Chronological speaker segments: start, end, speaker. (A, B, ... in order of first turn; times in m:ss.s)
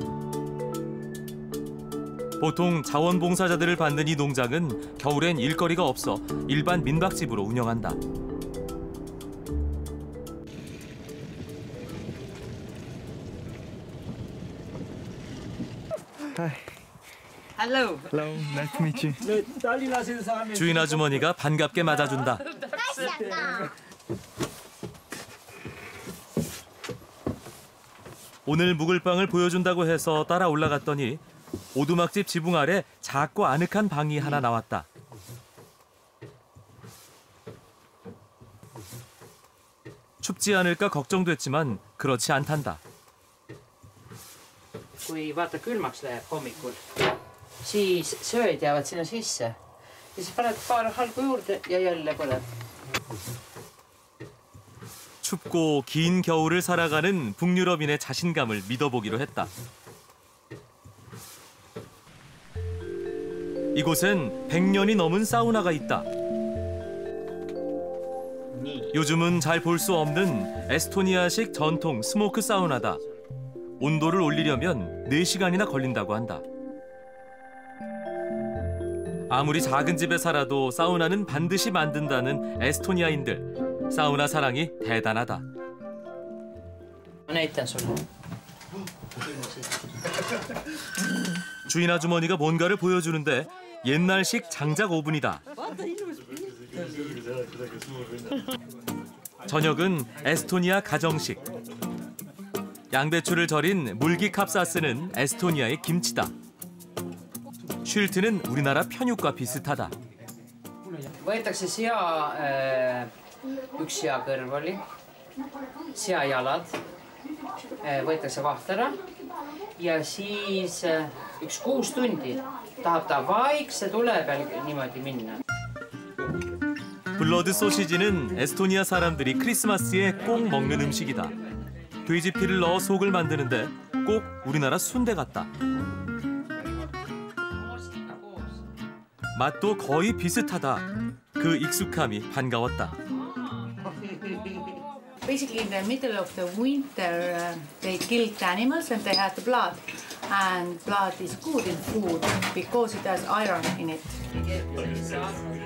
0:02.4-0:08.0 A
0:16.4-0:16.6 B
0:17.6-0:18.2 C
0:18.1-0:20.8 B
0:20.5-0:22.4 A
0:22.5-0:23.6 C
0:23.0-0:23.6 B
0:28.5-0:31.2 A
0:31.8-0:34.9 A
0:40.2-0:42.8 A
0:45.0-0:46.8 C
0:47.6-0:49.6 C
0:50.2-0:52.5 C
0:55.2-0:59.5 A
1:03.7-1:06.1 A
1:08.9-1:13.0 A
1:13.8-1:16.4 A
1:19.3-1:25.4 A
1:27.3-1:28.0 C
1:31.7-1:35.4 A
1:39.5-1:41.4 A
1:42.9-1:46.3 A
1:47.8-1:49.9 A
1:51.2-1:53.1 C
1:53.8-1:54.8 C
1:55.9-1:56.8 C
1:57.8-1:59.0 C
1:59.8-2:05.4 C
2:07.2-2:11.3 A
2:12.0-2:15.5 A
2:17.7-2:18.6 C
2:19.3-2:23.0 A
2:25.2-2:34.2 D
2:34.7-2:35.4 C